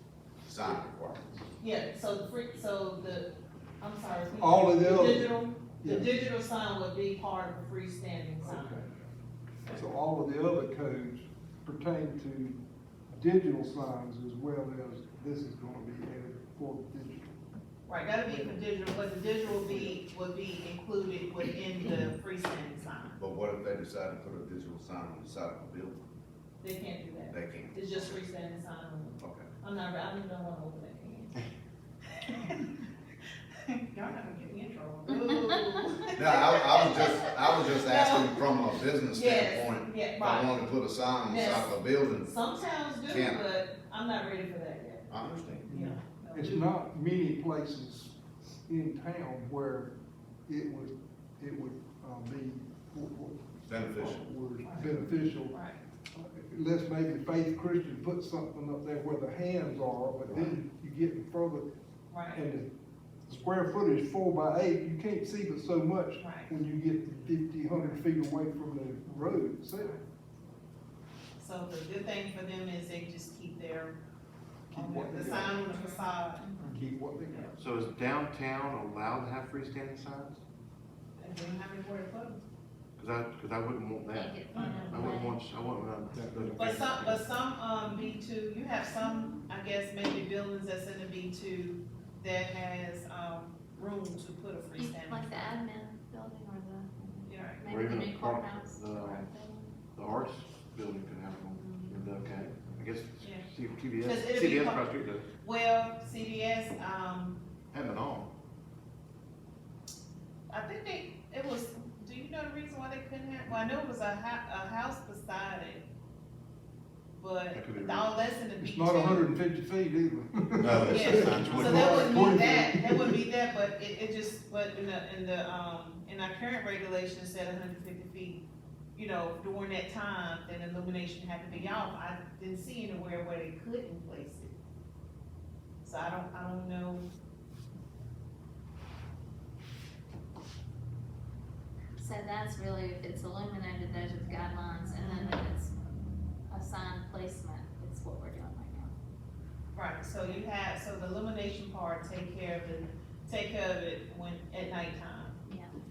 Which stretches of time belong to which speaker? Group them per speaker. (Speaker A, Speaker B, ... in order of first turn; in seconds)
Speaker A: 0.4-1.3, 23.2-26.0, 27.3-28.1, 36.2-42.3, 43.0-43.5, 45.1-45.7, 53.7-54.2, 60.3-60.5, 120.6-122.4
Speaker B: 1.6-8.8, 17.9-23.2, 26.6-31.4, 32.2-32.8, 33.6-38.5, 39.1-40.6, 41.2-46.6, 55.5-55.8, 62.1-62.4, 66.2-66.5, 71.4-74.0, 74.7-76.5, 81.2-82.4, 84.6-85.1, 86.6-95.5, 97.2-97.7, 101.5-102.0, 103.2-103.5, 104.0-107.4, 110.5-115.8, 117.2-119.3, 120.8-128.4, 128.9-134.5, 135.8-137.1, 149.7-155.4
Speaker C: 4.3-6.1, 8.4-8.9, 9.7-17.3, 18.3-18.7, 19.6-19.9, 45.7-50.0, 50.5-55.6, 56.1-61.7, 62.3-62.7, 63.3-70.0, 74.7-75.8, 76.6-77.7, 84.6-84.9, 86.1-86.6, 118.6-123.2
Speaker D: 29.2-29.5, 77.6-80.4, 83.0-87.3, 97.6-99.3, 99.9-105.2, 107.7-108.3, 117.5-118.3
Speaker E: 35.4-35.8, 75.8-76.7, 84.1-85.5, 89.0-89.4, 94.8-99.8, 142.0-145.7, 146.5-148.9, 150.2-150.5, 155.5-155.7